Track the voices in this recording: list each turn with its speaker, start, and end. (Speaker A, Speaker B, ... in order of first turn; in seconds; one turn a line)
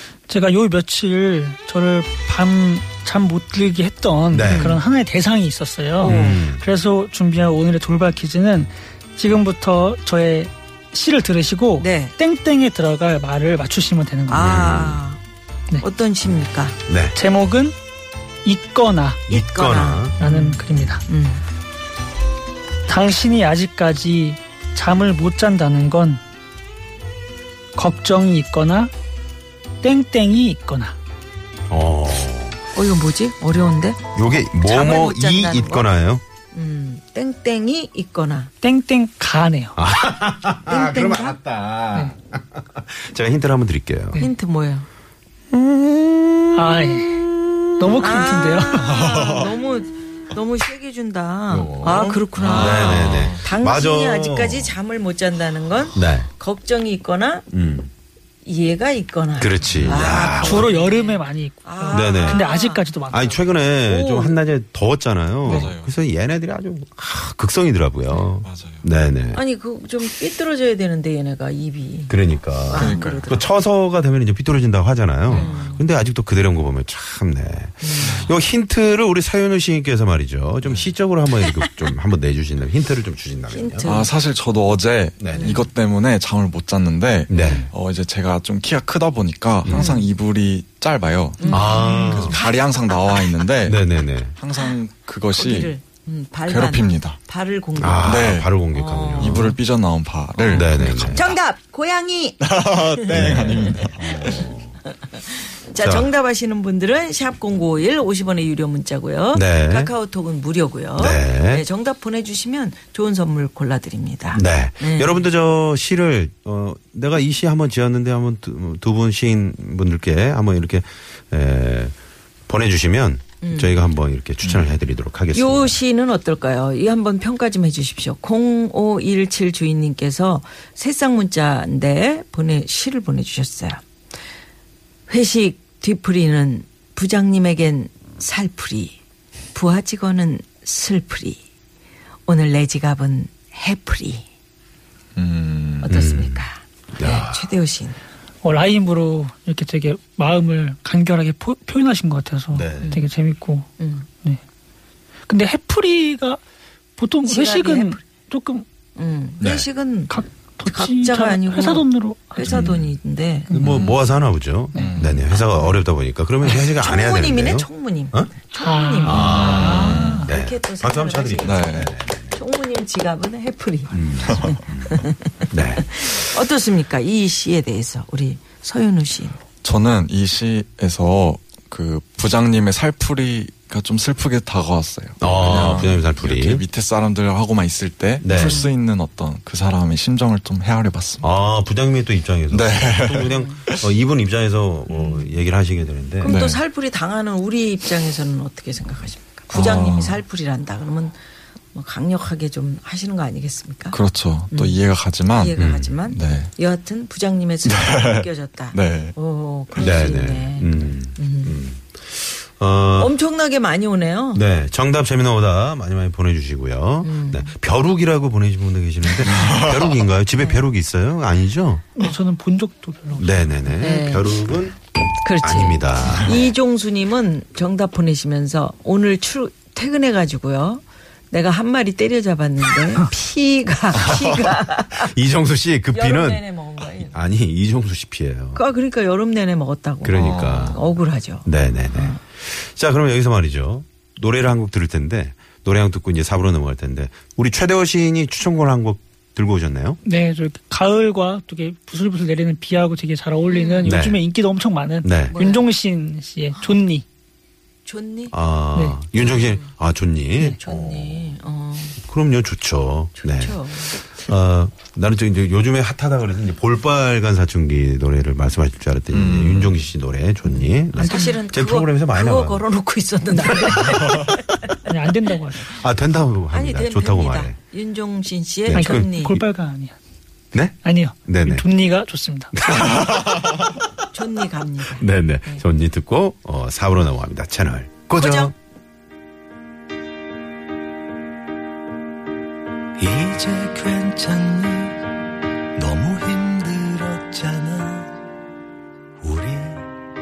Speaker A: 0.3-14.5
Speaker B: 4.3-4.7
Speaker C: 4.5-4.8
Speaker C: 6.0-6.4
Speaker B: 6.0-6.6
Speaker C: 11.8-12.1
Speaker C: 14.3-15.2
Speaker B: 14.3-15.0
Speaker C: 15.8-16.8
Speaker B: 16.9-17.1
Speaker A: 17.1-17.7
Speaker A: 18.4-19.2
Speaker B: 19.3-20.1
Speaker C: 19.3-21.4
Speaker A: 20.2-21.0
Speaker A: 22.9-26.2
Speaker A: 27.7-28.9
Speaker A: 29.8-30.9
Speaker B: 31.7-32.6
Speaker C: 32.7-35.9
Speaker B: 34.1-36.2
Speaker C: 36.5-38.5
Speaker A: 38.6-39.8
Speaker B: 39.8-44.2
Speaker C: 40.7-41.4
Speaker C: 44.2-44.9
Speaker A: 46.5-49.0
Speaker C: 47.9-57.5
Speaker D: 48.9-49.5
Speaker B: 51.5-54.7
Speaker D: 52.3-53.5
Speaker B: 55.9-56.3
Speaker B: 57.5-57.9
Speaker C: 58.4-62.8
Speaker B: 59.4-60.7
Speaker D: 59.7-60.0
Speaker A: 60.2-63.5
Speaker B: 61.9-62.4
Speaker B: 63.1-69.4
Speaker C: 63.9-64.4
Speaker D: 65.4-66.0
Speaker D: 68.4-68.9
Speaker C: 69.3-73.5
Speaker B: 72.1-83.9
Speaker D: 72.7-73.3
Speaker C: 75.3-75.8
Speaker C: 77.8-78.3
Speaker D: 78.0-78.3
Speaker D: 80.6-80.9
Speaker C: 81.4-81.9
Speaker C: 83.5-84.1
Speaker D: 83.8-95.7
Speaker B: 85.2-85.6
Speaker C: 85.3-85.7
Speaker C: 87.3-87.7
Speaker B: 87.3-87.7
Speaker B: 89.6-89.9
Speaker C: 89.7-90.1
Speaker C: 91.4-93.4
Speaker B: 91.5-92.4
Speaker B: 93.6-94.3
Speaker C: 95.3-99.6
Speaker D: 96.5-97.2
Speaker B: 97.8-99.5
Speaker D: 98.0-98.5
Speaker D: 99.1-101.4
Speaker C: 100.4-115.2
Speaker B: 100.4-101.3
Speaker D: 102.4-104.5
Speaker B: 103.1-104.7
Speaker B: 105.8-106.1
Speaker B: 109.3-109.9
Speaker B: 111.0-111.6
Speaker B: 114.3-121.9
Speaker B: 122.5-125.8
Speaker C: 123.4-123.8
Speaker D: 124.4-124.7
Speaker C: 125.3-133.8
Speaker C: 135.1-139.0
Speaker C: 139.5-141.4
Speaker C: 142.3-144.2
Speaker D: 145.2-145.9
Speaker C: 145.8-148.0
Speaker B: 145.9-146.4
Speaker B: 146.9-147.4
Speaker A: 148.4-153.7
Speaker B: 152.5-152.9
Speaker C: 153.8-154.1
Speaker A: 155.3-156.4
Speaker A: 157.0-158.6
Speaker C: 157.2-158.0
Speaker C: 158.9-163.6
Speaker A: 160.1-162.7
Speaker B: 162.4-162.8
Speaker B: 163.5-168.3
Speaker D: 163.6-164.0
Speaker D: 164.7-165.2
Speaker C: 165.4-165.8
Speaker C: 166.4-179.4
Speaker A: 168.6-170.2
Speaker B: 169.1-172.4
Speaker D: 169.4-170.3
Speaker D: 171.4-171.9
Speaker B: 173.9-175.9
Speaker D: 174.2-174.6
Speaker D: 179.6-191.3
Speaker B: 185.2-186.6
Speaker C: 185.3-185.9
Speaker B: 188.2-188.6
Speaker C: 188.3-188.7
Speaker B: 191.2-196.3
Speaker D: 192.5-193.9
Speaker C: 194.9-195.3
Speaker C: 196.2-201.2
Speaker D: 196.2-196.6
Speaker D: 199.5-200.2
Speaker C: 201.7-204.0
Speaker D: 203.9-206.5
Speaker C: 204.5-204.8
Speaker C: 205.3-211.6
Speaker B: 205.6-205.9
Speaker D: 207.7-209.1
Speaker B: 209.7-213.1
Speaker C: 212.9-214.4
Speaker B: 214.3-221.9
Speaker C: 217.0-217.5
Speaker D: 219.4-219.9
Speaker A: 221.9-223.6
Speaker B: 223.2-224.8
Speaker C: 223.8-224.4
Speaker C: 225.2-235.1
Speaker B: 225.4-226.4
Speaker B: 235.0-236.4
Speaker C: 235.9-237.2
Speaker B: 237.0-238.6
Speaker C: 238.5-242.2
Speaker B: 240.0-240.8
Speaker D: 240.1-240.8
Speaker B: 241.4-250.0
Speaker A: 250.0-257.0
Speaker C: 253.5-254.0
Speaker B: 253.8-254.2
Speaker B: 255.0-255.3
Speaker C: 255.3-255.7
Speaker C: 257.9-258.3
Speaker B: 258.3-261.2
Speaker C: 259.1-259.7
Speaker C: 260.4-262.0
Speaker B: 262.0-272.6
Speaker C: 263.2-264.0
Speaker D: 269.1-269.9
Speaker C: 270.5-274.4
Speaker A: 271.0-271.4
Speaker A: 273.3-273.9
Speaker A: 274.8-275.7
Speaker B: 275.7-277.5
Speaker C: 276.5-279.4
Speaker B: 278.7-279.0
Speaker A: 278.7-279.9
Speaker B: 280.5-281.6
Speaker A: 280.8-282.5
Speaker B: 282.6-283.7
Speaker C: 284.1-285.6
Speaker B: 285.0-288.5
Speaker C: 288.1-288.5
Speaker E: 293.0-295.1
Speaker E: 295.7-298.2
Speaker E: 299.2-299.9